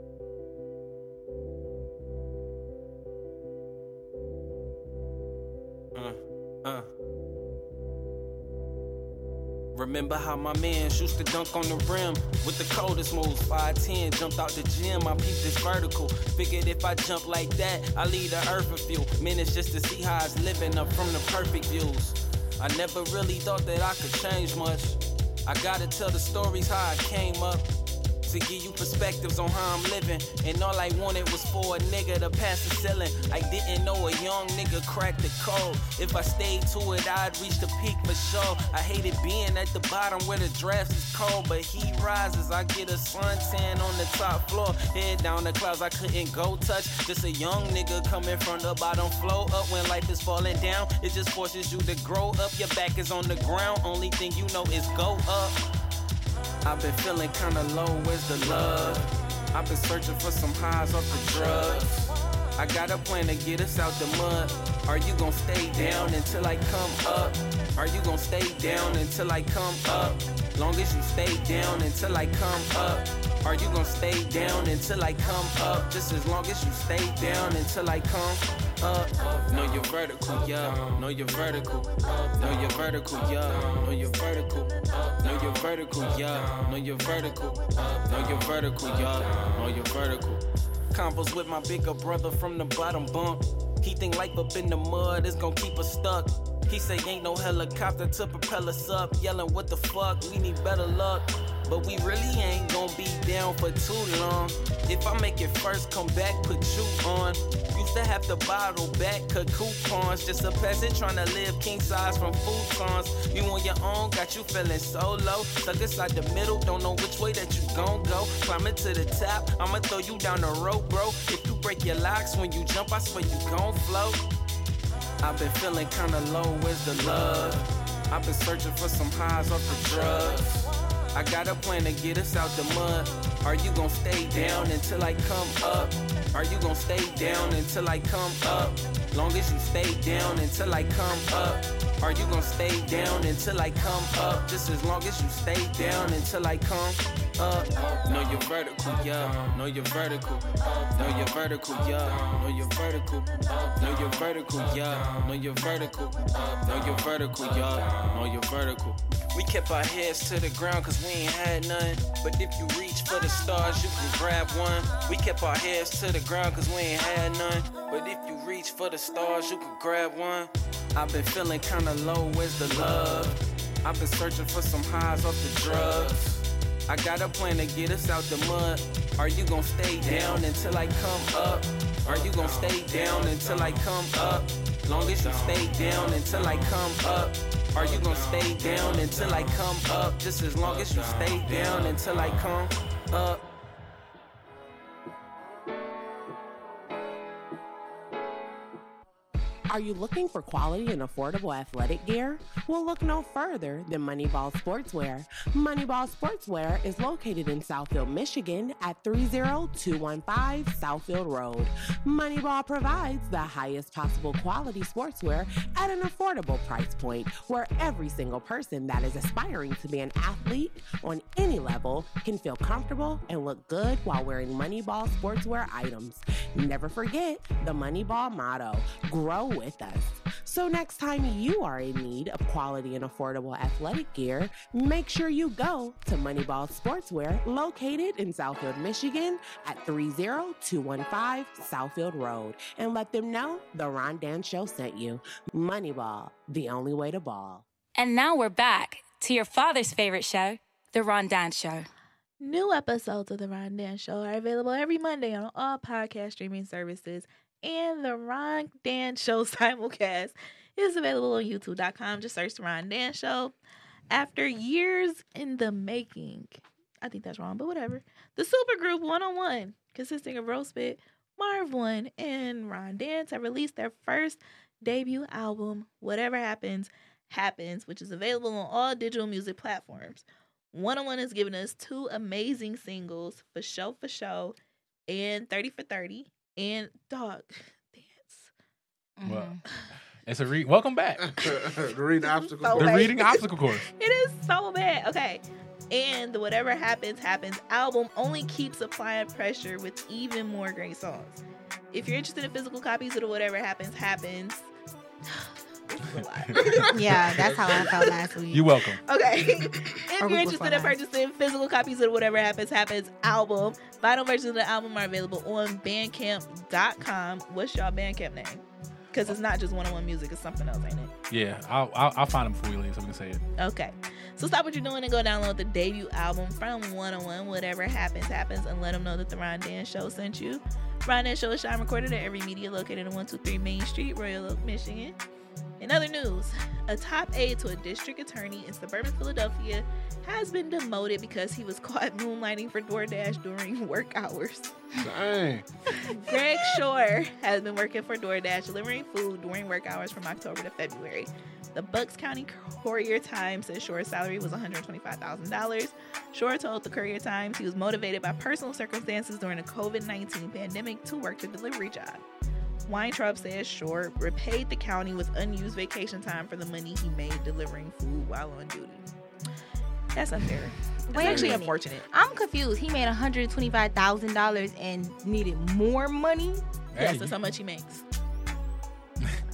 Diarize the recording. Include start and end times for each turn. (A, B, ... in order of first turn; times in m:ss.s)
0:05.9-0:06.9 A
0:09.8-0:27.6 A
0:28.2-0:55.6 A
0:56.6-2:04.2 A
2:05.2-3:13.4 A
3:19.7-4:07.6 B
4:08.0-4:11.9 C
4:12.4-4:23.5 D
4:24.1-4:44.5 D
4:45.1-4:48.5 D
4:49.2-4:49.6 E
4:49.2-4:49.6 F
4:50.2-4:51.6 F
4:51.2-4:53.1 G
4:52.3-5:01.4 D
4:52.8-4:53.8 F
5:01.9-5:04.7 D
5:05.9-5:07.0 D
5:06.5-5:06.9 F
5:06.7-5:08.0 G
5:06.9-5:08.7 E
5:08.5-5:09.0 F
5:09.0-5:21.1 D
5:10.2-5:11.0 E
5:21.3-5:23.4 F
5:23.6-5:35.2 D
5:35.8-5:44.7 D
5:45.0-5:45.6 G
5:46.0-6:02.2 D
6:02.9-6:09.0 D
6:10.1-6:12.1 D
6:11.1-6:16.6 E
6:11.2-6:11.5 G
6:16.9-6:17.3 F
6:17.0-6:18.0 D